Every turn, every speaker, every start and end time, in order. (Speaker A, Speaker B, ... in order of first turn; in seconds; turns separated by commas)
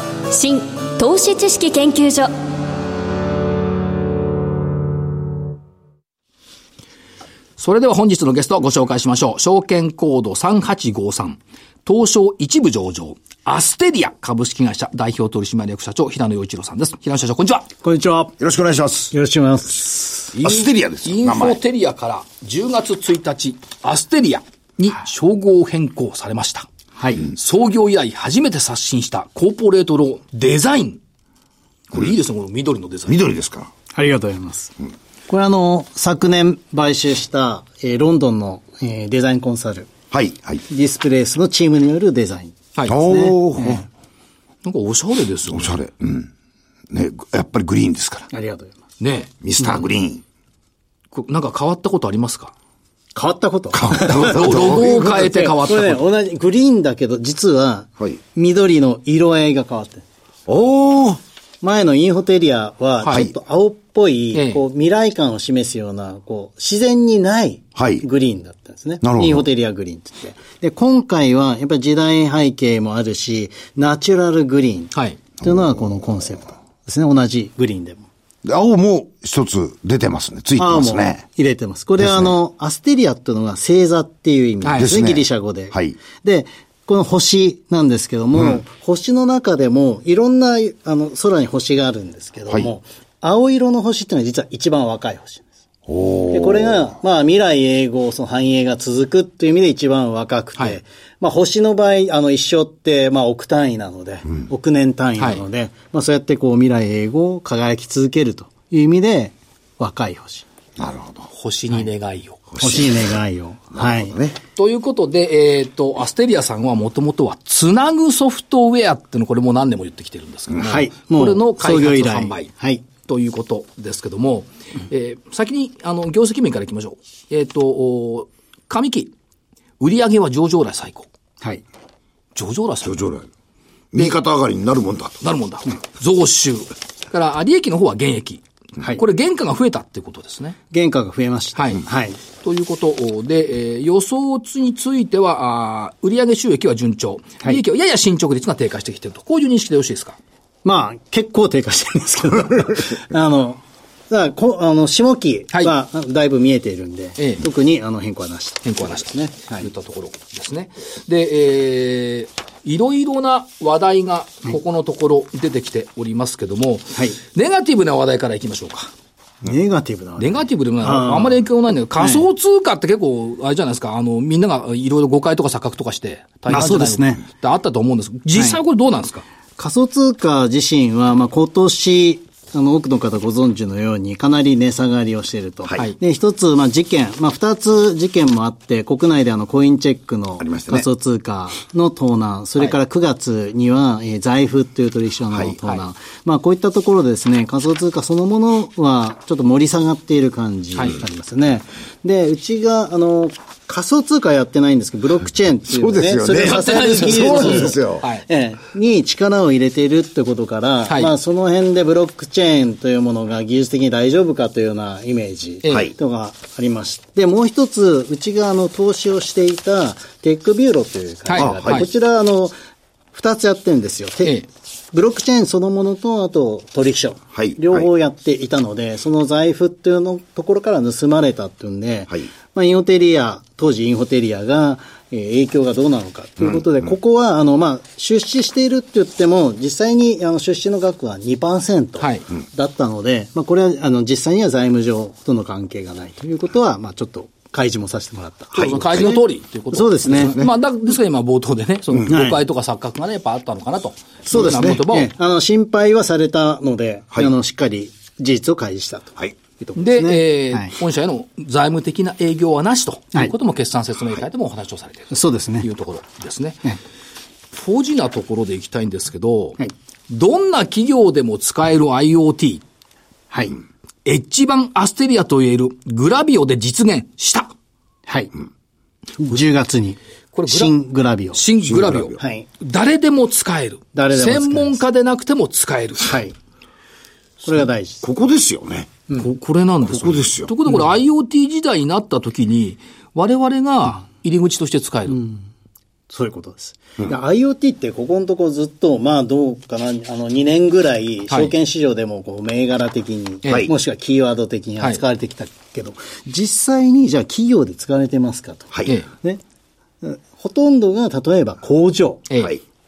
Speaker A: 0.3-2.3, Speaker B: 7.6-17.7, Speaker C: 17.8-18.3, Speaker D: 18.4-19.1, Speaker C: 19.1-20.3, Speaker B: 20.3-26.7, Speaker D: 20.4-21.6, Speaker C: 27.0-27.3, Speaker B: 27.2-31.0, Speaker B: 31.9-33.2, Speaker D: 33.1-33.7, Speaker C: 33.9-34.7, Speaker C: 35.3-39.9, Speaker D: 40.1-40.6, Speaker C: 40.7-43.9, Speaker D: 42.9-43.9, Speaker B: 44.6-45.7, Speaker D: 45.5-46.3, Speaker D: 46.9-48.3, Speaker C: 48.3-48.8, Speaker B: 49.0-49.7, Speaker D: 49.4-50.2, Speaker B: 51.1-52.5, Speaker C: 53.1-60.0, Speaker D: 53.7-55.4, Speaker B: 54.1-56.0, Speaker D: 60.5-61.2, Speaker C: 61.6-78.1, Speaker B: 64.3-64.6, Speaker D: 67.8-68.0, Speaker D: 69.0-69.5, Speaker B: 74.9-75.2, Speaker D: 78.4-81.2, Speaker C: 80.6-95.5, Speaker D: 82.0-82.3, Speaker B: 84.6-84.9, Speaker D: 84.7-86.0, Speaker D: 95.9-96.9, Speaker C: 96.3-110.4, Speaker D: 110.8-111.3, Speaker B: 111.3-112.4, Speaker D: 112.5-113.2, Speaker C: 112.6-114.2, Speaker D: 113.7-114.4, Speaker B: 114.5-129.1, Speaker C: 120.6-122.8, Speaker B: 129.8-131.1, Speaker B: 132.3-133.0, Speaker D: 132.8-133.3, Speaker D: 133.9-135.2, Speaker B: 135.2-140.6, Speaker C: 140.7-142.2, Speaker B: 141.5-141.8, Speaker B: 142.4-150.2, Speaker C: 150.6-159.7, Speaker B: 157.2-157.4, Speaker B: 158.6-168.9, Speaker C: 169.4-171.4, Speaker B: 170.2-179.2, Speaker C: 172.0-172.2, Speaker C: 176.5-177.2, Speaker C: 179.6-222.6, Speaker D: 190.4-190.9, Speaker D: 195.3-195.6, Speaker D: 205.7-208.1, Speaker B: 206.3-208.2, Speaker B: 215.6-215.9, Speaker D: 215.7-215.9, Speaker B: 221.3-221.9, Speaker D: 221.3-221.9, Speaker C: 223.1-224.4, Speaker C: 224.9-250.4, Speaker D: 227.3-227.9, Speaker D: 236.4-236.6, Speaker B: 242.0-242.3, Speaker B: 248.5-255.1, Speaker D: 248.5-249.1, Speaker D: 250.2-250.5, Speaker C: 252.0-252.4, Speaker C: 254.3-260.7, Speaker D: 254.3-254.8, Speaker B: 259.8-266.6, Speaker C: 265.1-265.7, Speaker B: 267.5-272.6, Speaker C: 273.3-273.6, Speaker B: 274.0-277.5, Speaker C: 278.1-278.3, Speaker C: 279.2-281.4, Speaker B: 280.3-280.8, Speaker B: 281.3-286.2, Speaker D: 281.6-282.2, Speaker C: 282.2-282.4, Speaker C: 283.9-284.8, Speaker C: 286.0-286.3, Speaker C: 287.4-288.0, Speaker D: 288.0-289.0, Speaker B: 289.1-295.2, Speaker D: 289.8-290.5, Speaker C: 295.1-295.4, Speaker C: 296.1-309.4, Speaker B: 303.4-303.7, Speaker D: 303.5-303.7, Speaker C: 310.0-312.3, Speaker B: 312.3-312.6